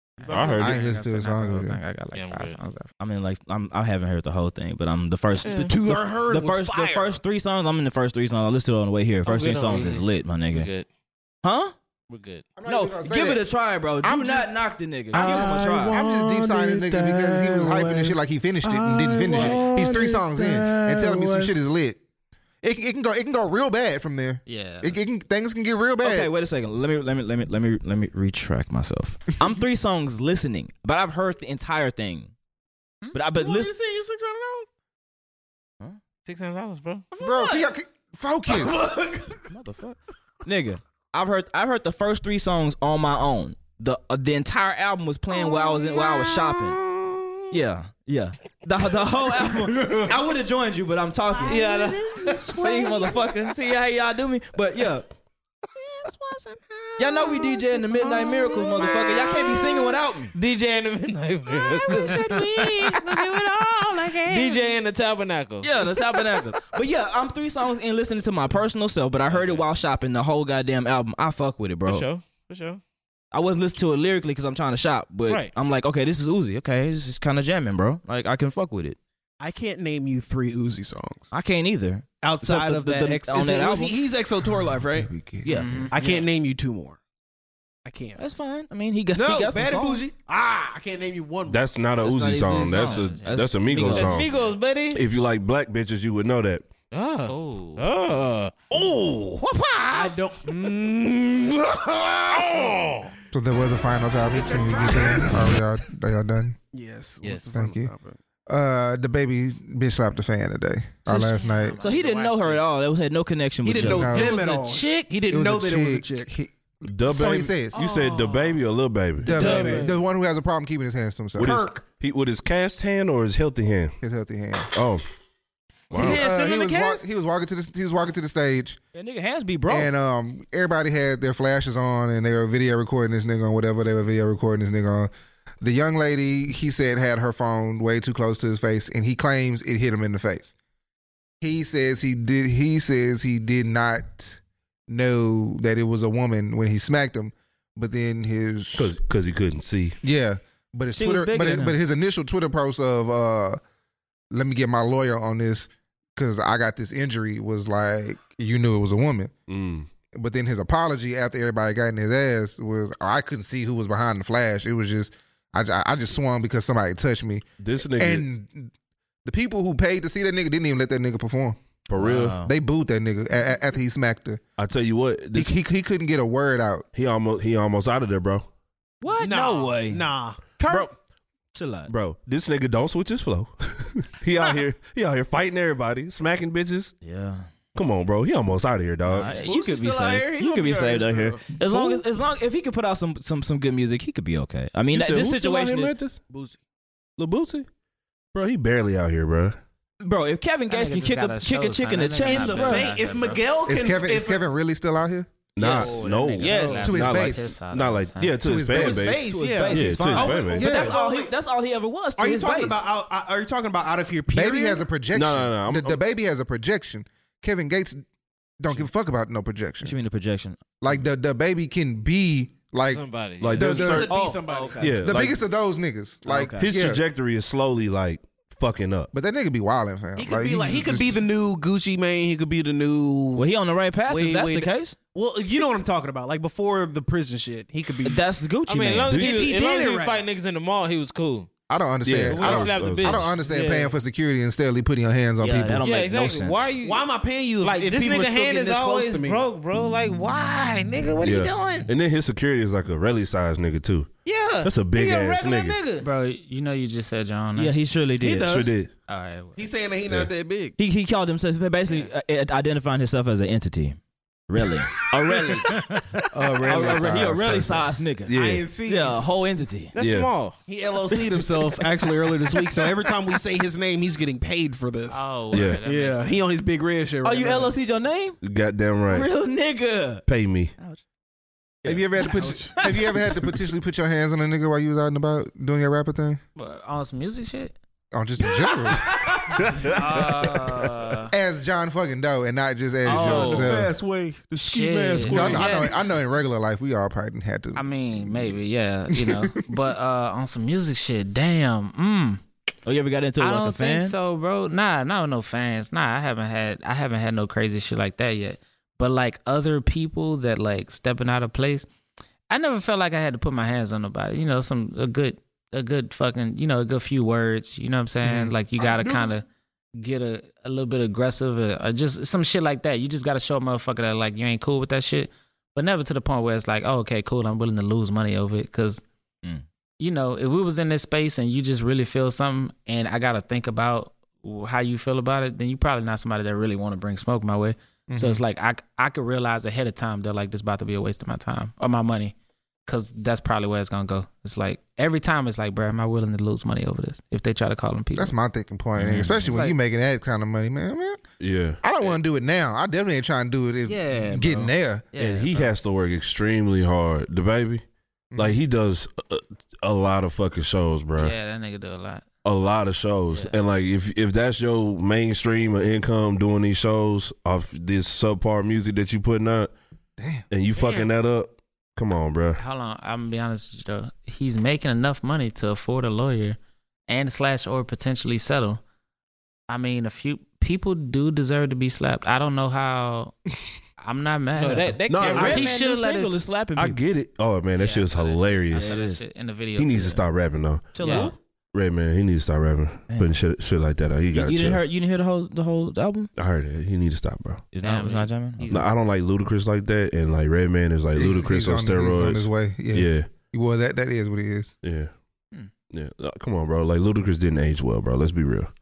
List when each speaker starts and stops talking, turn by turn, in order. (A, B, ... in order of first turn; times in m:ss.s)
0:00.2-0:02.9 A
0:00.3-0:00.8 B
0:00.6-0:01.8 C
0:02.1-0:02.6 D
0:03.0-0:10.7 E
0:05.4-0:05.7 D
0:05.5-0:07.2 F
0:09.2-0:10.9 D
0:09.7-0:10.0 A
0:11.4-0:11.7 E
0:12.1-0:12.4 D
0:12.6-0:13.5 C
0:12.7-0:16.0 E
0:14.0-0:14.5 C
0:15.1-0:21.5 B
0:15.2-0:22.0 C
0:22.6-0:26.3 C
0:24.5-0:25.0 A
0:26.0-0:32.3 E
0:33.1-0:33.7 E
0:33.4-0:34.7 F
0:36.2-0:37.1 D
0:37.1-0:37.6 F
0:37.2-0:39.0 C
0:38.5-0:39.5 F
0:39.5-0:46.8 E
0:45.4-0:47.4 F
0:47.5-0:55.1 E
0:49.8-0:50.1 F
0:51.4-0:53.0 D
0:57.0-1:00.3 E
0:58.2-0:58.9 D
0:58.2-0:59.6 F
1:00.3-1:06.6 D
1:01.9-1:02.9 E
1:04.0-1:04.5 E
1:05.6-1:12.1 E
1:09.3-1:09.7 D
1:11.9-1:12.8 D
1:13.3-1:19.0 E
1:15.3-1:15.5 D
1:19.4-1:21.2 F
1:21.3-1:24.0 E
1:22.2-1:25.1 F
1:24.4-1:25.9 C
1:25.4-1:26.2 E
1:25.5-1:26.0 A
1:25.9-1:27.0 F
1:27.8-1:28.2 F
1:28.2-1:30.0 E
1:29.1-1:31.7 F
1:31.5-1:34.3 B
1:32.0-1:34.3 E
1:32.6-1:34.6 A
1:33.9-1:35.0 D
1:34.9-1:36.7 B
1:36.9-1:38.5 D
1:37.3-1:37.8 A
1:38.7-1:39.3 F
1:39.9-1:43.1 F
1:42.3-1:43.0 D
1:43.3-1:46.6 C
1:44.5-1:45.4 F
1:46.7-1:48.2 F
1:47.5-1:47.9 C
1:48.5-1:51.8 C
1:51.1-1:52.7 A
1:51.8-1:54.2 E
1:53.6-1:56.3 F
1:53.8-1:54.4 C
1:54.1-1:55.1 A
1:55.3-1:57.8 C
1:56.9-1:59.4 B
1:57.7-1:58.6 F
1:59.2-2:01.6 C
1:59.3-2:00.0 F
1:59.4-1:59.9 E
2:01.4-2:04.0 B
2:01.4-2:01.8 F
2:04.0-2:04.7 C
2:04.7-2:05.0 B
2:05.9-2:06.2 B
2:05.9-2:08.8 C
2:06.0-2:06.8 E
2:08.9-2:09.9 E
2:09.7-2:20.6 C
2:21.4-2:28.9 C
2:28.8-2:30.0 B
2:30.0-2:33.6 C
2:31.0-2:31.8 E
2:34.3-2:39.3 C
2:39.5-2:39.9 B
2:40.1-2:48.7 C
2:47.6-2:48.3 B
2:49.2-2:51.6 C
2:51.9-2:52.4 B
2:52.0-2:52.5 E
2:52.4-2:54.4 C
2:54.6-2:55.6 B
2:55.3-2:56.8 C
2:56.9-2:58.5 B
2:59.0-3:00.0 E
2:59.2-3:00.6 F
3:00.6-3:00.9 E
3:00.7-3:00.9 B
3:01.5-3:01.9 E
3:01.9-3:07.0 B
3:07.0-3:07.5 E
3:07.8-3:09.3 B
3:09.1-3:16.0 E
3:09.3-3:11.3 D
3:09.4-3:11.4 F
3:11.7-3:12.0 B
3:14.9-3:16.2 B
3:16.3-3:16.6 F
3:17.2-3:17.7 B
3:18.3-3:19.6 B
3:20.0-3:22.9 E
3:20.7-3:23.4 A
3:22.2-3:24.4 F
3:23.7-3:25.3 C
3:25.6-3:30.8 B
3:25.6-3:27.0 E
3:25.7-3:28.4 A
3:26.5-3:26.8 F
3:26.8-3:27.5 C
3:28.4-3:29.1 C
3:28.7-3:31.3 F
3:29.1-3:32.8 E
3:30.5-3:31.0 C
3:32.2-3:34.9 F
3:34.3-3:38.0 C
3:35.1-3:36.0 B
3:38.6-3:40.0 C
3:39.8-3:41.0 E
3:40.8-3:44.1 C
3:42.8-3:43.7 D
3:43.4-3:44.1 B
3:43.6-3:45.1 F
3:43.6-3:45.1 E
3:44.8-3:45.4 B
3:45.0-3:47.0 C
3:46.2-3:46.7 E
3:46.6-3:49.1 B
3:49.1-3:51.2 C
3:50.2-3:53.5 F
3:53.4-3:55.0 E
3:54.1-3:58.2 F
3:58.0-3:59.2 E
3:58.7-4:01.5 D
3:59.1-4:00.2 F
4:01.7-4:05.8 C
4:02.0-4:03.3 B
4:02.3-4:03.9 D
4:05.4-4:06.8 E
4:05.8-4:07.0 D
4:06.8-4:09.4 F
4:07.6-4:11.9 D
4:11.2-4:14.1 B
4:14.3-4:16.1 D
4:14.6-4:15.8 B
4:16.0-4:17.8 A
4:17.6-4:18.6 E
4:18.2-4:18.7 F
4:18.4-4:18.9 B
4:19.1-4:19.7 A
4:19.6-4:20.8 F
4:20.8-4:25.7 E
4:26.3-4:27.9 C
4:26.6-4:30.0 E
4:28.3-4:28.6 B
4:28.4-4:29.3 F
4:29.9-4:30.6 D
4:30.0-4:30.3 B
4:30.7-4:37.8 F
4:31.1-4:31.8 E
4:32.5-4:33.1 E
4:35.1-4:36.4 A
4:35.5-4:35.8 B
4:37.2-4:38.4 E
4:38.4-4:39.3 B
4:39.1-4:40.3 E
4:40.3-4:40.7 B
4:41.8-4:43.6 E
4:41.8-4:46.4 C
4:46.6-4:47.7 A
4:48.1-4:49.3 C
4:49.4-4:50.3 B
4:49.9-4:51.3 A
4:51.3-4:53.9 C
4:53.1-4:55.9 F
4:53.1-4:53.7 A
4:54.6-4:55.9 A
4:55.2-4:55.6 B
4:55.3-4:58.5 C
4:57.7-5:02.4 A
4:59.1-4:59.5 C
5:02.9-5:04.1 E
5:03.4-5:11.9 A
5:12.5-5:29.0 A
5:18.2-5:18.5 C
5:18.8-5:19.3 F
5:30.0-5:42.3 A
5:38.1-5:38.4 C
5:42.9-5:48.4 A
5:48.2-5:51.2 C
5:49.0-5:49.8 A
5:49.1-5:49.5 B
5:51.4-5:51.8 B
5:51.8-5:55.0 C
5:53.9-5:55.7 A
5:55.2-5:57.8 B
5:58.3-5:58.6 C
5:58.4-6:01.4 B
6:01.2-6:02.2 A
6:02.4-6:09.7 B
6:03.3-6:03.6 A
6:10.2-6:10.4 C
6:10.5-6:12.6 B
6:10.8-6:11.1 A
6:12.6-6:18.8 A
6:19.7-6:23.3 A
6:24.0-6:26.4 A
6:24.6-6:25.7 D
6:25.1-6:27.0 E
6:25.1-6:25.7 B
6:26.8-6:29.0 B
6:27.8-6:30.2 A
6:28.8-6:29.2 E
6:29.8-6:34.8 B
6:30.9-6:31.4 E
6:31.0-6:31.3 A
6:33.1-6:33.4 E
6:34.3-6:36.3 E
6:36.4-6:37.7 B
6:37.7-6:38.7 E
6:37.8-6:38.9 A
6:38.7-6:43.3 B
6:41.2-6:44.8 C
6:44.8-6:45.1 B
6:45.9-6:48.7 B